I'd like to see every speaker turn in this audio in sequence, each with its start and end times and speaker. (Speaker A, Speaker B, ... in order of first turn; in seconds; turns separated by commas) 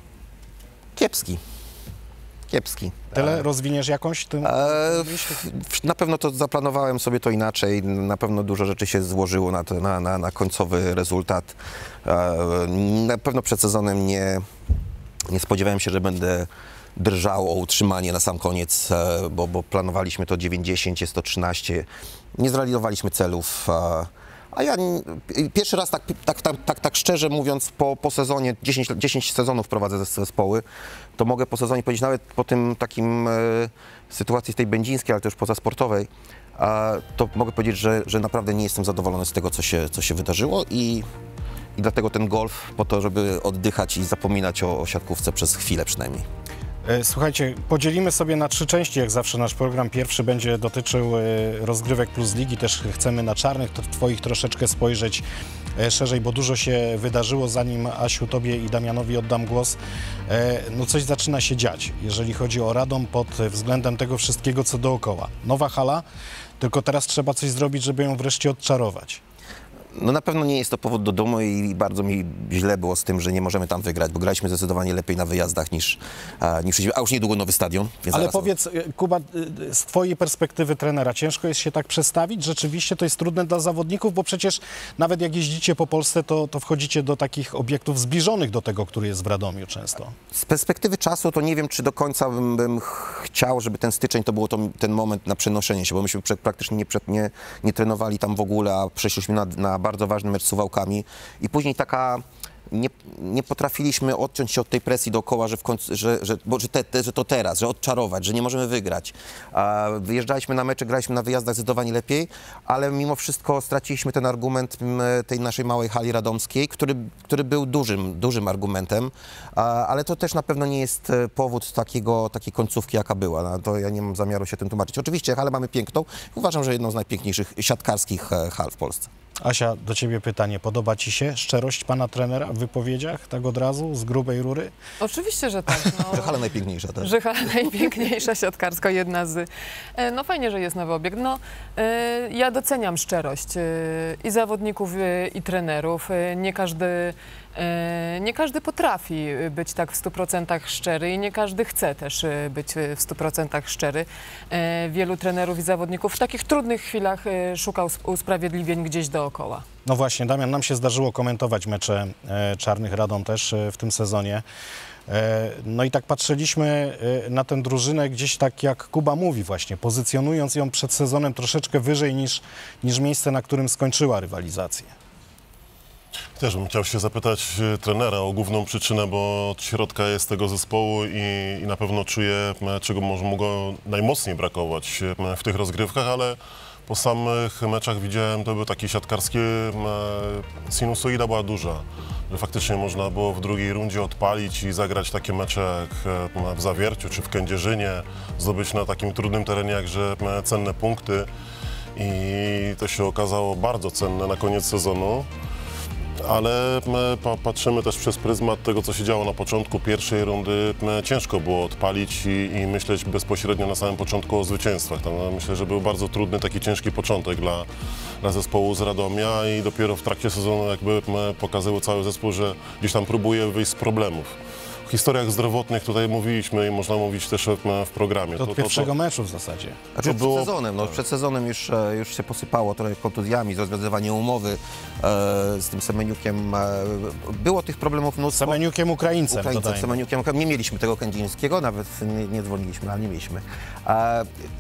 Speaker A: 0.9-1.4, Speaker A: 2.5-3.5, Speaker B: 3.1-5.4, Speaker A: 4.4-14.4, Speaker A: 15.3-30.6, Speaker A: 31.2-41.0, Speaker A: 41.8-46.2, Speaker B: 46.8-55.2, Speaker B: 55.8-66.0, Speaker B: 66.6-69.2, Speaker A: 70.0-78.5, Speaker B: 78.1-90.1, Speaker A: 90.3-129.1, Speaker B: 129.4-134.7, Speaker C: 135.0-136.3, Speaker A: 136.1-137.1, Speaker C: 137.0-159.6, Speaker B: 159.8-164.4, Speaker B: 165.1-174.9, Speaker D: 176.4-201.3, Speaker D: 201.9-205.3, Speaker D: 206.2-217.7, Speaker D: 218.2-224.3, Speaker D: 224.8-228.9, Speaker B: 228.4-229.8, Speaker A: 229.9-238.6, Speaker D: 230.0-231.0, Speaker B: 238.3-240.0, Speaker A: 239.3-244.3